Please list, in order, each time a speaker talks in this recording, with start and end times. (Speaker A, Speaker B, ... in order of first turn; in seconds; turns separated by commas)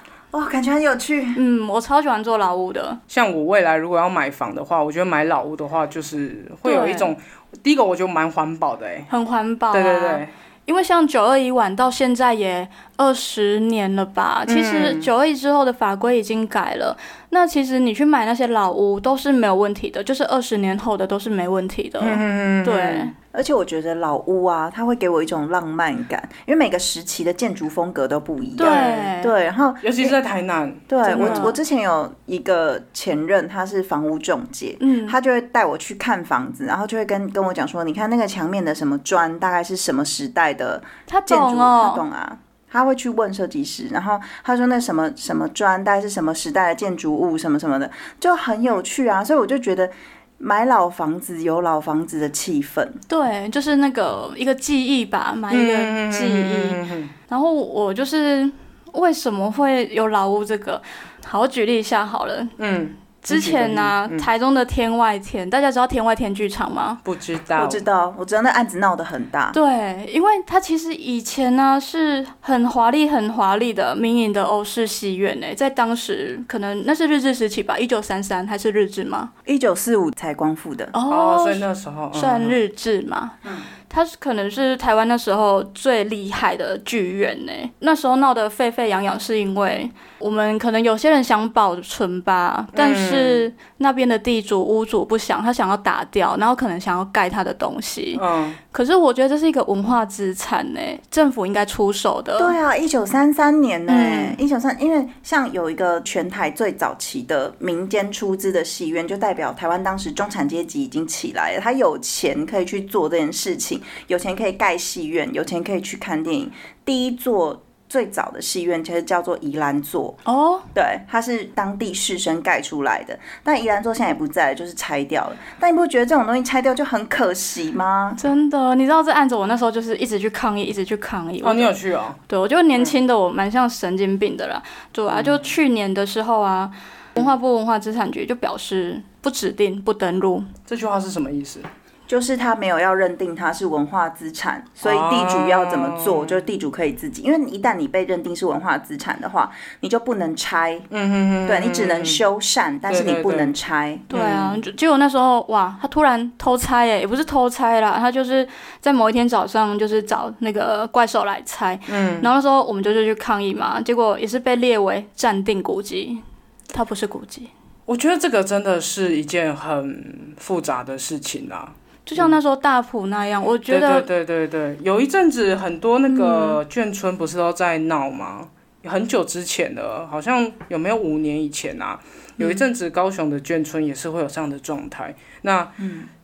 Speaker A: 0.3-1.4, Speaker B: 1.4-3.0, Speaker C: 3.1-9.1, Speaker B: 6.7-7.2, Speaker B: 9.1-23.1, Speaker C: 9.7-10.3, Speaker C: 14.5-15.1, Speaker C: 22.0-23.1, Speaker A: 23.3-30.2, Speaker B: 28.6-29.3, Speaker C: 28.6-29.1, Speaker C: 29.8-31.5, Speaker A: 30.9-53.0, Speaker B: 31.0-31.6, Speaker B: 34.8-35.2, Speaker B: 41.1-42.0, Speaker B: 53.1-62.5, Speaker C: 55.5-57.1, Speaker C: 62.6-64.3, Speaker B: 63.2-67.0, Speaker C: 67.0-67.8, Speaker A: 67.6-69.6, Speaker B: 69.5-79.3, Speaker A: 79.5-80.9, Speaker B: 80.9-102.5, Speaker C: 81.1-82.6, Speaker C: 92.7-93.5, Speaker C: 98.2-98.6, Speaker A: 102.4-120.2, Speaker B: 103.9-104.4, Speaker B: 120.3-120.7, Speaker A: 120.8-128.2, Speaker B: 128.2-131.8, Speaker C: 131.4-132.2, Speaker B: 132.3-140.5, Speaker C: 135.1-135.4, Speaker C: 140.7-141.7, Speaker A: 142.1-150.9, Speaker C: 144.8-146.4, Speaker C: 150.9-152.2, Speaker A: 151.4-154.1, Speaker C: 152.9-153.5, Speaker B: 154.1-167.5, Speaker C: 154.1-154.6, Speaker C: 161.9-162.3, Speaker C: 167.9-172.4, Speaker B: 172.1-174.1, Speaker C: 173.7-185.8, Speaker B: 176.1-176.6, Speaker A: 185.8-186.1